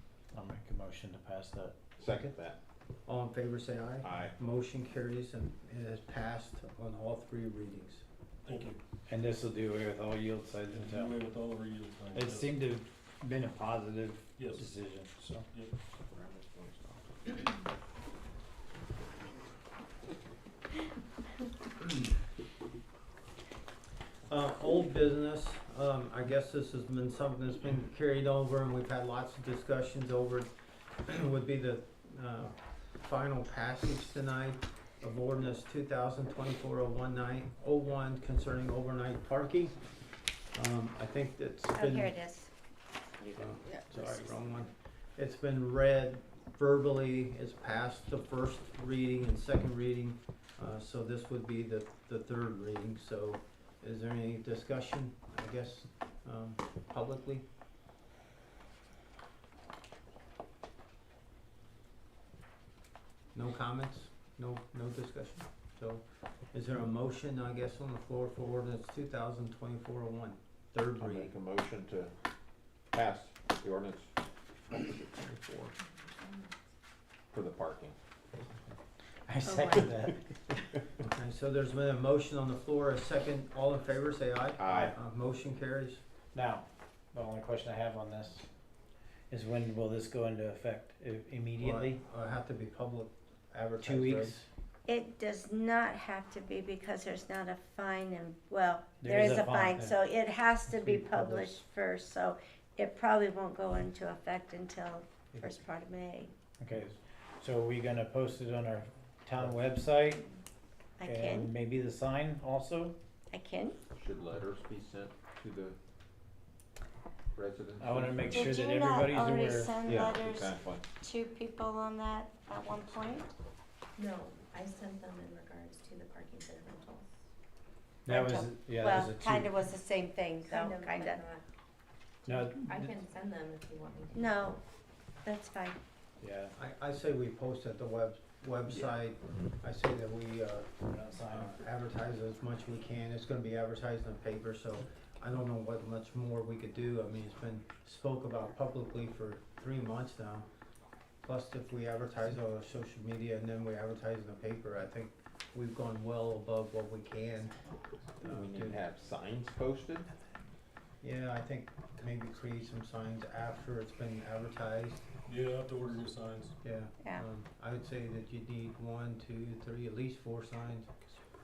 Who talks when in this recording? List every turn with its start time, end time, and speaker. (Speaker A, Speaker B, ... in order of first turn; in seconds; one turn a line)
Speaker A: 0.3-1.8
Speaker B: 2.0-2.6
Speaker C: 3.1-8.1
Speaker B: 4.0-4.3
Speaker D: 8.4-8.8
Speaker A: 9.1-11.1
Speaker D: 10.7-12.5
Speaker A: 12.1-15.5
Speaker D: 14.4-14.7
Speaker B: 16.1-16.5
Speaker C: 24.3-30.5
Speaker C: 31.0-39.8
Speaker C: 40.5-42.1
Speaker E: 41.7-42.5
Speaker E: 43.2-43.9
Speaker C: 43.4-57.5
Speaker C: 63.3-71.3
Speaker B: 71.0-72.1
Speaker B: 72.9-74.1
Speaker B: 74.7-75.7
Speaker B: 77.3-78.0
Speaker A: 79.3-80.3
Speaker C: 81.0-86.0
Speaker B: 84.6-84.9
Speaker A: 86.3-88.5
Speaker A: 89.3-92.0
Speaker C: 91.6-94.4
Speaker A: 93.8-94.5
Speaker E: 94.9-106.3
Speaker A: 99.0-99.8
Speaker C: 100.7-101.6
Speaker A: 106.6-110.3
Speaker E: 111.0-111.5
Speaker A: 111.0-113.0
Speaker E: 113.3-113.8
Speaker B: 114.0-115.8
Speaker B: 117.3-118.5
Speaker A: 117.8-119.8
Speaker E: 118.3-123.3
Speaker B: 119.9-120.8
Speaker F: 124.0-127.1
Speaker A: 128.1-129.5
Speaker E: 128.1-131.2
Speaker F: 130.4-131.4
Speaker A: 132.3-132.9
Speaker F: 132.4-134.6
Speaker E: 134.1-134.6
Speaker E: 135.2-135.8
Speaker A: 136.2-136.6
Speaker C: 136.6-150.5
Speaker A: 140.9-141.5
Speaker C: 151.2-157.6
Speaker C: 158.2-158.8
Speaker B: 158.2-160.1
Speaker C: 161.0-165.1
Speaker D: 165.3-166.6
Speaker C: 166.6-171.0